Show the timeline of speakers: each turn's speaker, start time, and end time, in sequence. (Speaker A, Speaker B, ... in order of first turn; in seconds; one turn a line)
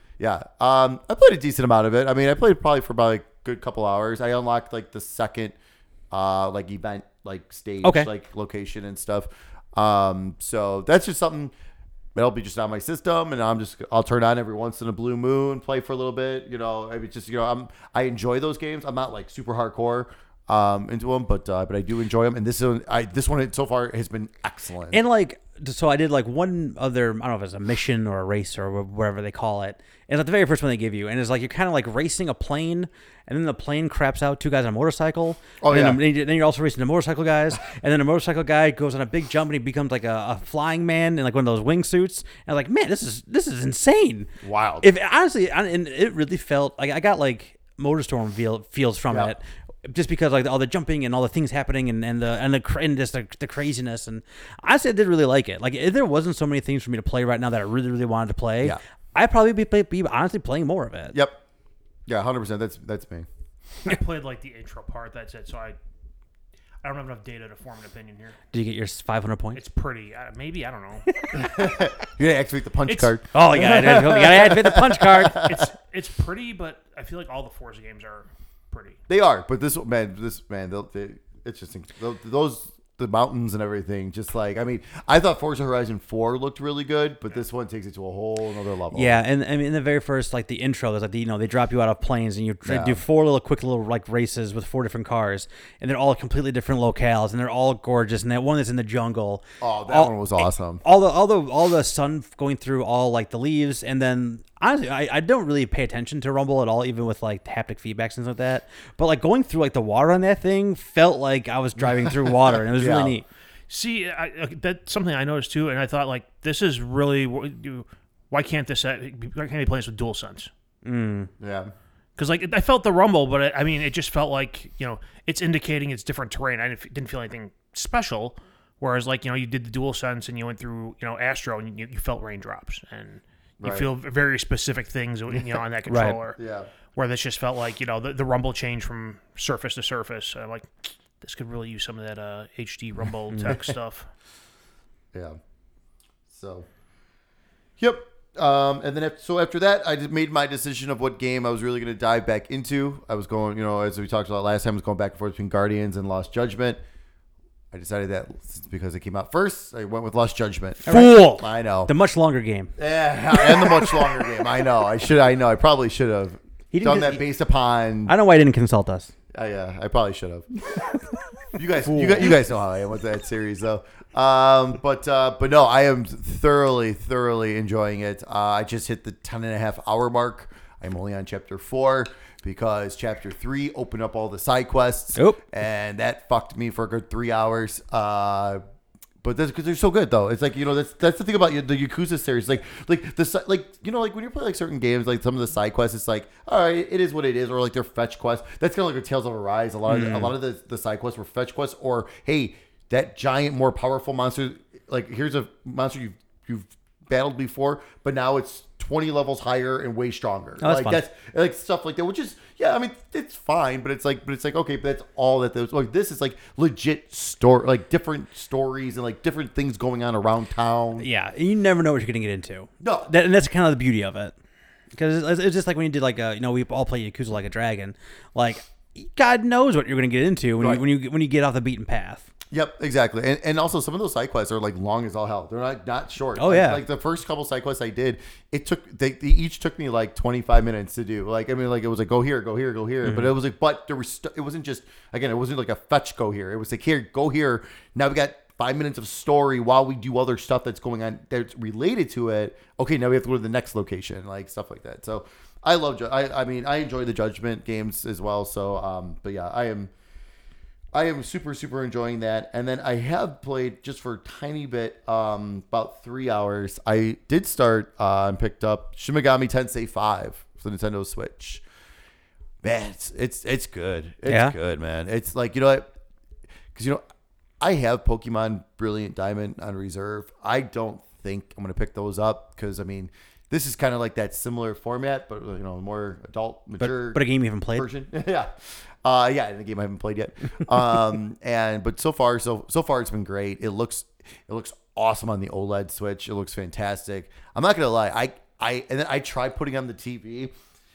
Speaker A: 0.2-5.5
Speaker A: 6.1-11.5
Speaker B: 7.8-8.1
Speaker A: 12.1-25.0
Speaker B: 24.9-61.2
Speaker A: 35.6-36.0
Speaker A: 44.4-44.9
Speaker A: 49.1-49.3
Speaker A: 61.1-61.4
Speaker A: 62.1-63.3
Speaker C: 63.8-65.8
Speaker C: 66.8-68.4
Speaker B: 68.5-69.6
Speaker C: 69.5-71.4
Speaker A: 71.3-75.6
Speaker C: 72.9-73.1
Speaker B: 73.3-75.4
Speaker C: 75.3-79.0
Speaker A: 79.1-89.2
Speaker B: 88.9-113.2
Speaker A: 92.6-93.0
Speaker A: 99.6-100.8
Speaker A: 111.8-113.2
Speaker C: 113.7-120.5
Speaker B: 120.8-121.3
Speaker A: 121.4-121.7
Speaker C: 122.2-136.4
Speaker A: 133.6-133.9
Speaker B: 135.9-136.2
Speaker A: 136.4-136.7
Speaker C: 136.9-144.1
Speaker A: 145.1-145.4
Speaker A: 146.3-146.7
Speaker A: 147.8-156.8
Speaker A: 157.7-161.9
Speaker B: 160.8-162.7
Speaker A: 162.8-168.1
Speaker B: 163.3-164.1
Speaker B: 166.7-167.2
Speaker B: 168.1-169.1
Speaker A: 169.3-170.4
Speaker A: 171.5-188.6
Speaker B: 171.8-172.4
Speaker B: 185.1-185.4
Speaker A: 189.2-221.1
Speaker B: 199.8-200.3
Speaker B: 210.6-211.0
Speaker B: 221.0-224.3
Speaker A: 222.8-223.1
Speaker B: 224.9-232.3
Speaker A: 232.5-259.9
Speaker B: 236.3-236.8
Speaker B: 243.0-243.3
Speaker A: 260.9-271.6
Speaker A: 272.6-275.9
Speaker B: 274.3-274.5
Speaker A: 276.7-277.0
Speaker A: 277.6-288.5
Speaker B: 286.8-287.9
Speaker A: 289.0-300.5